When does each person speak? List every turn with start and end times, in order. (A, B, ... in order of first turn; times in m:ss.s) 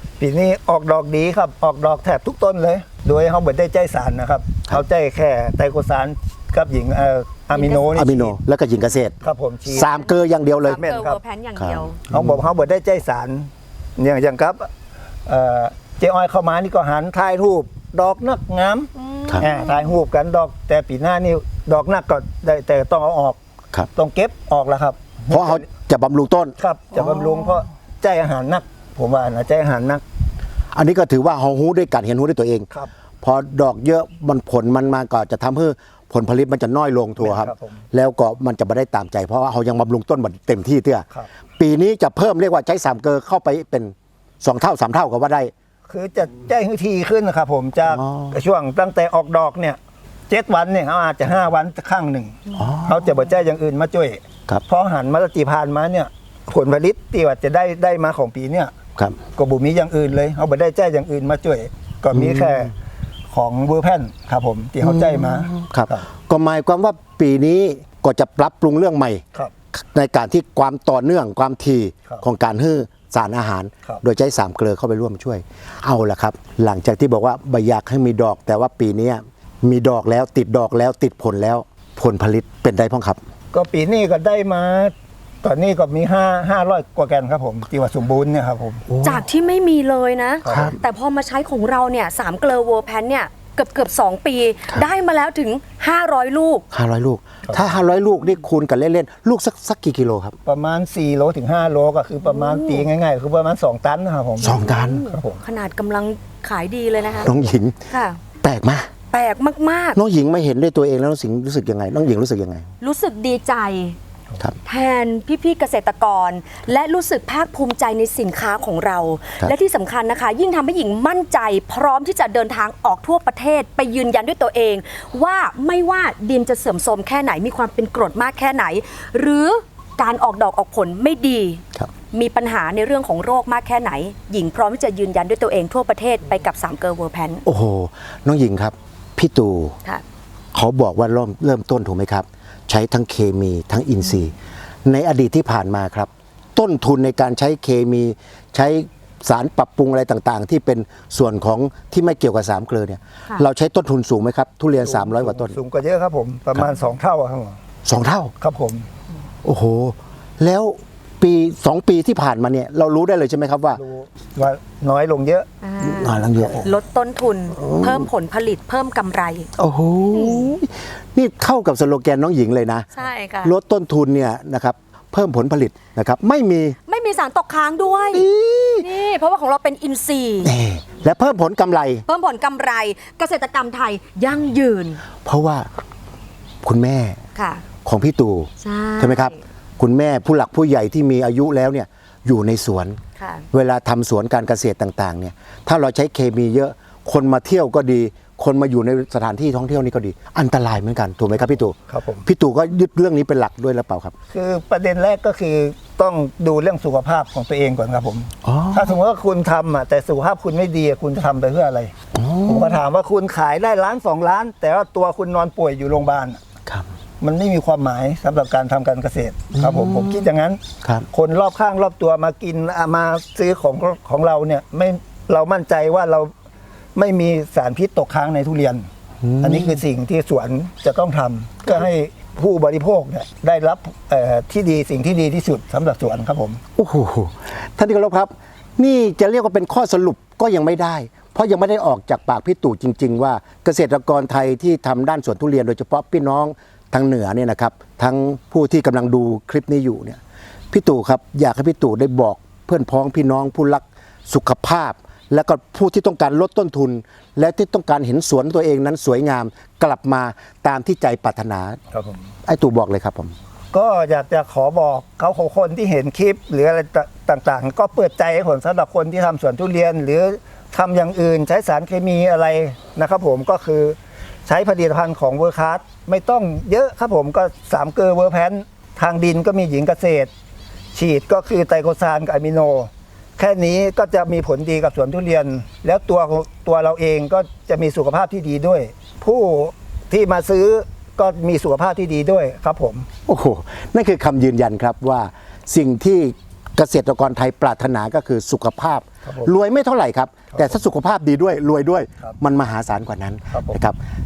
0:00.2-0:08.4 A
0:07.5-0:08.0 B
0:07.9-0:10.8 C
0:09.2-0:09.9 A
0:10.6-0:12.0 B
0:10.8-0:11.2 A
0:11.6-0:12.4 C
0:12.1-0:14.7 A
0:15.2-0:18.9 A
0:19.0-0:19.9 B
0:19.4-0:23.4 A
0:24.0-0:25.6 A
0:25.3-0:27.1 C
0:26.6-0:30.0 A
0:30.7-0:32.7 C
0:33.2-0:41.1 C
0:37.2-0:37.8 A
0:41.6-0:45.5 C
0:45.9-0:49.8 A
0:47.9-0:48.4 C
0:50.3-0:58.7 A
0:52.5-0:53.0 C
0:59.4-1:02.7 A
1:02.1-1:02.7 C
1:03.3-1:06.0 A
1:04.8-1:09.2 C
1:09.8-1:23.2 C
1:23.5-1:28.8 A
1:28.9-1:29.2 C
1:29.0-1:36.6 B
1:30.4-1:30.7 A
1:30.4-1:30.8 C
1:36.7-1:40.4 C
1:37.5-1:37.8 A
1:40.5-1:45.4 A
1:42.2-1:42.9 B
1:44.4-1:45.0 C
1:44.5-1:47.3 B
1:47.2-1:47.8 C
1:47.9-1:48.2 B
1:48.4-1:48.9 C
1:49.1-1:50.0 B
1:49.9-1:52.6 C
1:52.8-1:54.0 B
1:54.6-2:17.4 B
2:17.4-2:19.8 C
2:20.5-2:24.3 C
2:24.8-2:35.6 C
2:34.8-2:37.6 A
2:37.8-2:38.3 C
2:38.4-2:38.9 A
2:39.4-2:43.8 C
2:43.7-2:45.5 A
2:45.6-2:49.5 B
2:45.8-2:46.7 C
2:46.3-2:46.6 A
2:47.6-2:48.1 C
2:49.6-2:52.9 C
2:50.1-2:50.5 B
2:52.9-2:53.5 B
2:53.4-2:56.8 C
2:56.9-2:58.2 B
2:58.1-2:58.9 C
2:58.8-3:00.5 B
3:00.4-3:02.0 C
3:02.0-3:05.0 B
3:05.2-3:05.7 C
3:06.6-3:07.2 C
3:07.4-3:07.6 B
3:07.8-3:13.0 C
3:08.6-3:09.4 B
3:13.2-3:13.5 B
3:13.5-3:24.1 C
3:21.9-3:22.3 A
3:24.3-3:31.9 A
3:28.4-3:28.9 C
3:32.1-3:32.8 C
3:32.5-3:36.4 A
3:37.2-3:40.6 A
3:39.5-3:40.2 C
3:41.1-3:46.3 A
3:46.9-3:48.9 A
3:49.2-3:49.8 C
3:49.4-3:56.6 A
3:56.8-4:10.2 C
4:10.7-4:21.8 C
4:21.9-4:22.3 A
4:22.5-4:23.3 C
4:23.7-4:40.3 A
4:40.9-4:53.1 A
4:53.2-5:04.0 C
4:59.2-4:59.5 A
5:03.5-5:03.8 A